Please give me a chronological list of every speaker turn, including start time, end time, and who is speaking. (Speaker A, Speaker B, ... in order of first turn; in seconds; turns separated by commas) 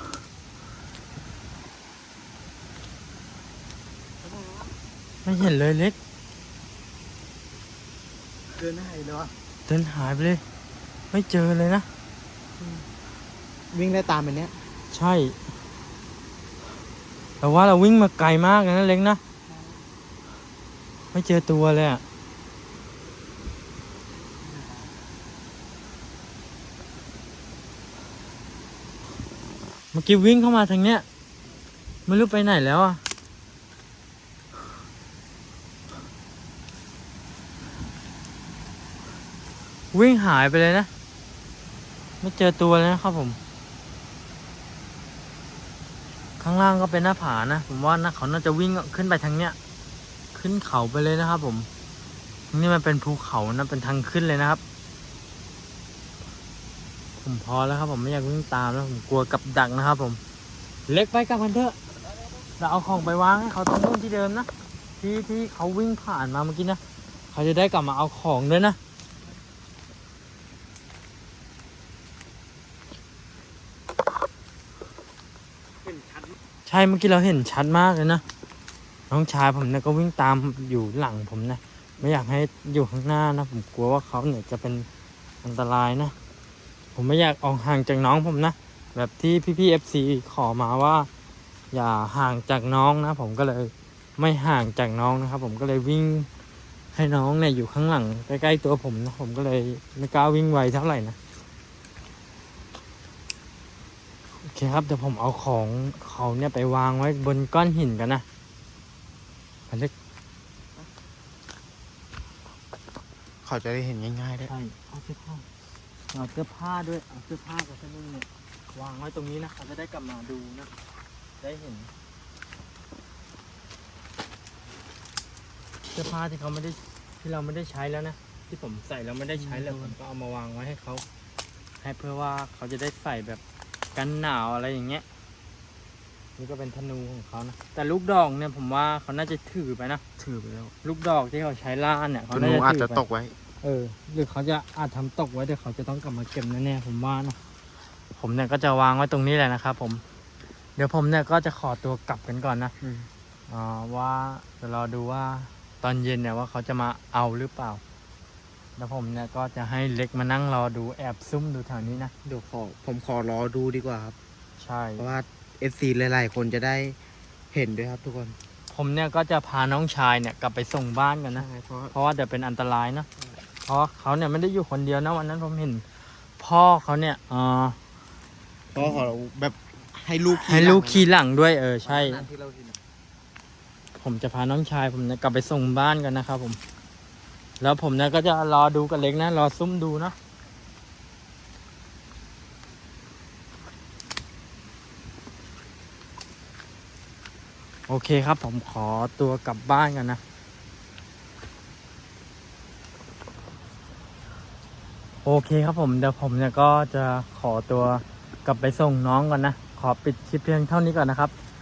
Speaker A: 4.2-4.7, Speaker B: 5.2-6.0, Speaker A: 8.5-9.3, Speaker B: 9.7-10.4, Speaker B: 11.1-11.9, Speaker A: 12.6-12.8, Speaker A: 13.7-14.6, Speaker B: 14.9-15.3, Speaker B: 17.4-19.2, Speaker B: 21.1-22.0, Speaker A: 24.4-24.9, Speaker B: 29.9-31.0, Speaker B: 32.1-33.0, Speaker B: 39.9-40.9, Speaker B: 42.2-43.4, Speaker B: 46.4-49.5, Speaker B: 50.3-51.7, Speaker B: 52.5-54.6, Speaker B: 57.2-60.2, Speaker B: 60.9-61.8, Speaker B: 62.6-64.5, Speaker B: 65.0-66.8, Speaker B: 67.3-68.8, Speaker B: 76.7-78.2, Speaker B: 79.1-84.9, Speaker B: 85.4-86.1, Speaker B: 87.0-91.1, Speaker B: 91.7-96.3, Speaker B: 96.9-101.2, Speaker B: 104.4-108.2, Speaker A: 113.4-114.5, Speaker B: 114.4-115.4, Speaker B: 116.1-120.7, Speaker B: 121.4-121.9, Speaker B: 125.9-131.0, Speaker A: 129.4-129.9, Speaker B: 131.8-133.4, Speaker B: 133.9-135.0, Speaker B: 136.4-143.0, Speaker A: 142.3-143.3, Speaker B: 143.6-147.4, Speaker B: 148.1-150.0, Speaker B: 150.8-152.7, Speaker A: 152.8-153.1, Speaker B: 153.5-157.8, Speaker B: 158.8-162.1, Speaker A: 162.2-164.2, Speaker B: 164.6-165.1, Speaker A: 165.0-167.0, Speaker A: 167.5-168.4, Speaker B: 168.7-173.1, Speaker A: 171.3-171.9, Speaker B: 173.7-175.8, Speaker B: 176.4-177.8, Speaker A: 178.7-181.1, Speaker B: 180.3-182.3, Speaker A: 181.8-182.8, Speaker B: 184.0-186.6, Speaker B: 187.6-190.1, Speaker B: 197.9-200.2, Speaker B: 205.2-211.3